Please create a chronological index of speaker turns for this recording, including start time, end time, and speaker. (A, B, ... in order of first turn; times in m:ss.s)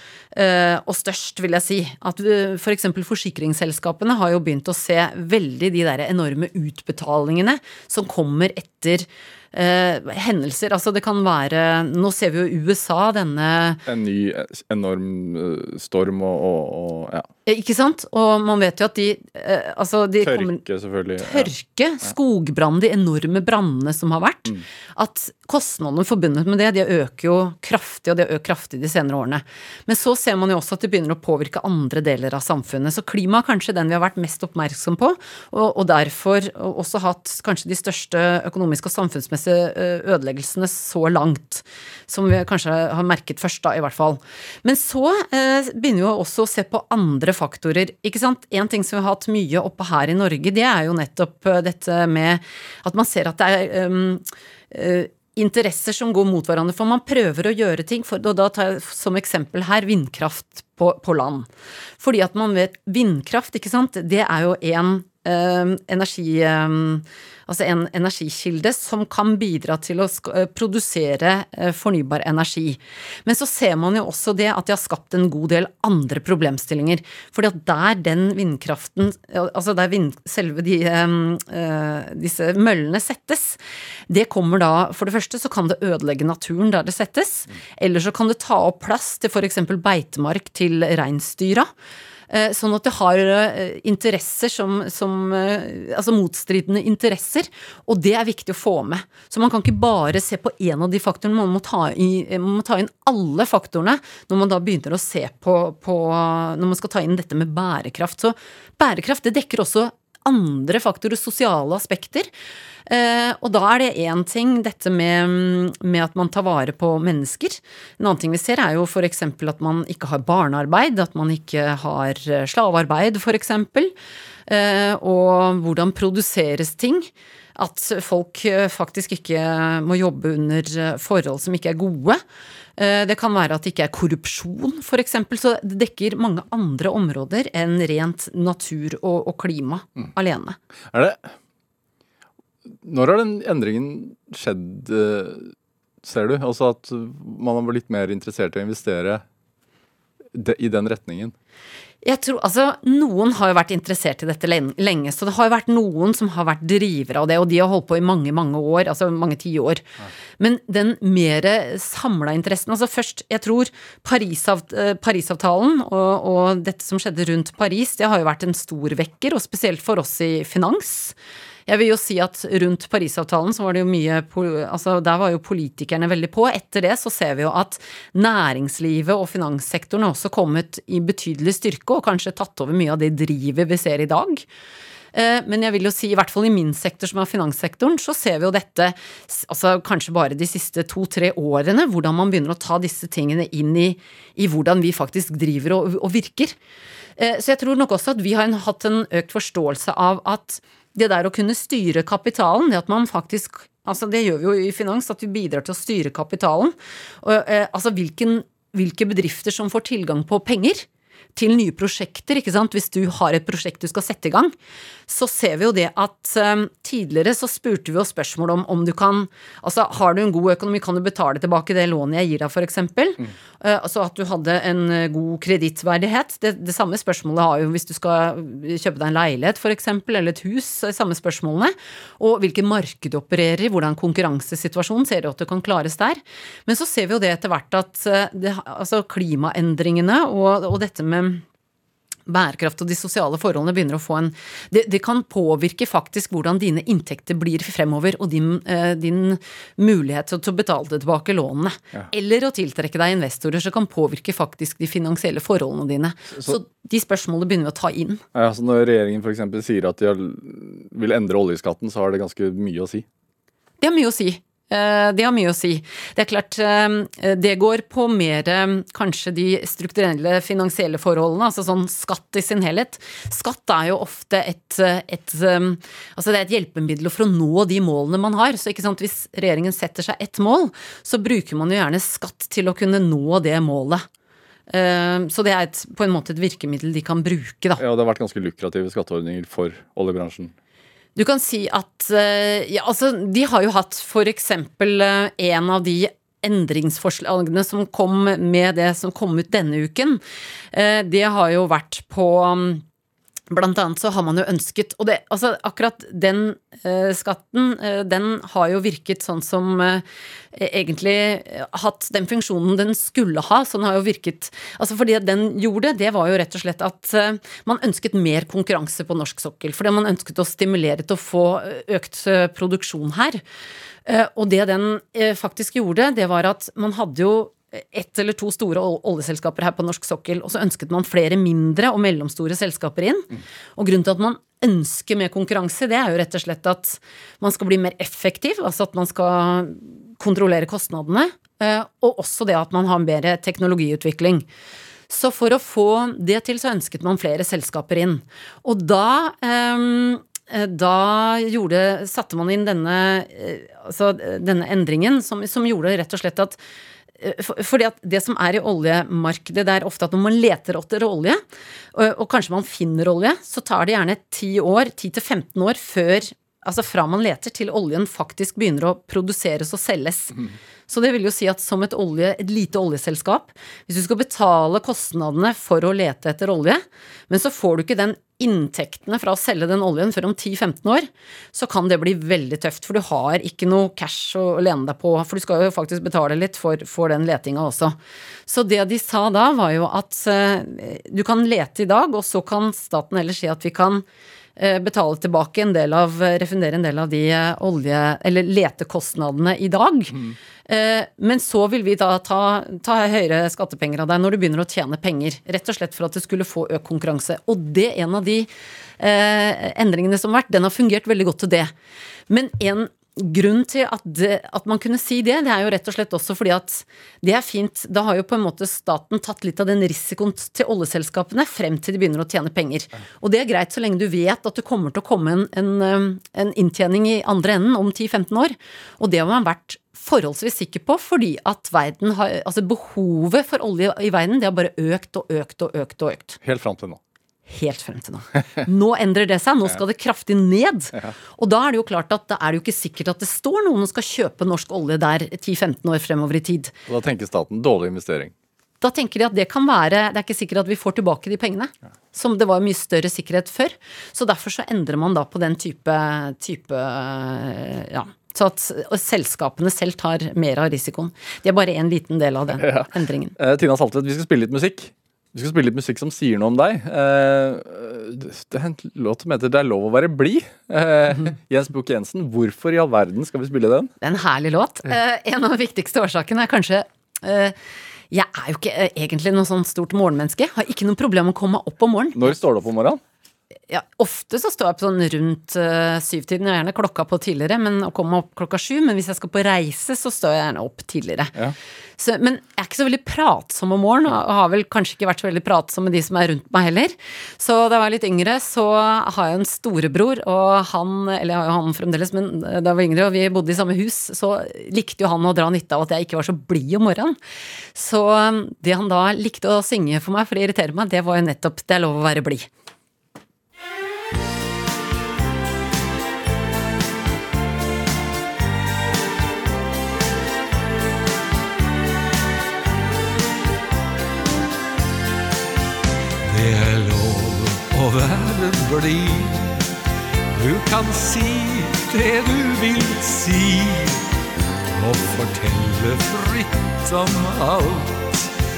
0:00.3-0:13.8 A
0:13.9-0:17.3 B
0:17.5-0:20.6 A
0:20.2-0:21.5 B
0:21.2-1:01.5 A
1:02.0-1:31.7 A
1:32.3-1:52.3 A
1:52.9-2:03.9 A
2:04.5-2:12.2 A
2:12.8-2:20.6 A
2:20.9-2:21.3 B
2:22.7-2:29.2 B
2:30.3-2:31.3 B
2:32.0-2:39.8 A
2:40.4-2:51.2 A
2:51.7-3:04.5 A
3:05.1-3:16.6 A
3:17.2-3:34.5 A
3:35.1-4:01.4 A
4:02.3-4:18.2 A
4:18.3-4:23.1 B
4:23.8-4:44.1 A
4:44.7-4:47.8 A
4:47.8-4:50.5 B
4:51.2-5:00.2 A
5:00.7-5:02.8 A
5:03.5-5:23.4 A
5:24.1-5:44.5 A
5:45.1-5:56.6 A
5:57.2-6:01.4 A
6:02.0-6:34.0 A
6:34.6-6:51.7 A
6:52.3-7:16.4 A
7:16.4-7:17.0 B
7:17.5-7:26.7 A
7:26.9-7:28.3 B
7:28.8-7:43.4 A
7:42.6-7:53.9 B
7:54.0-7:57.6 A
7:58.1-8:02.2 A
8:02.2-8:03.0 B
8:03.7-8:11.3 A
8:12.0-8:27.2 A
8:27.7-8:32.5 A
8:46.2-8:49.6 C
8:50.3-8:54.1 C
8:54.7-8:58.3 C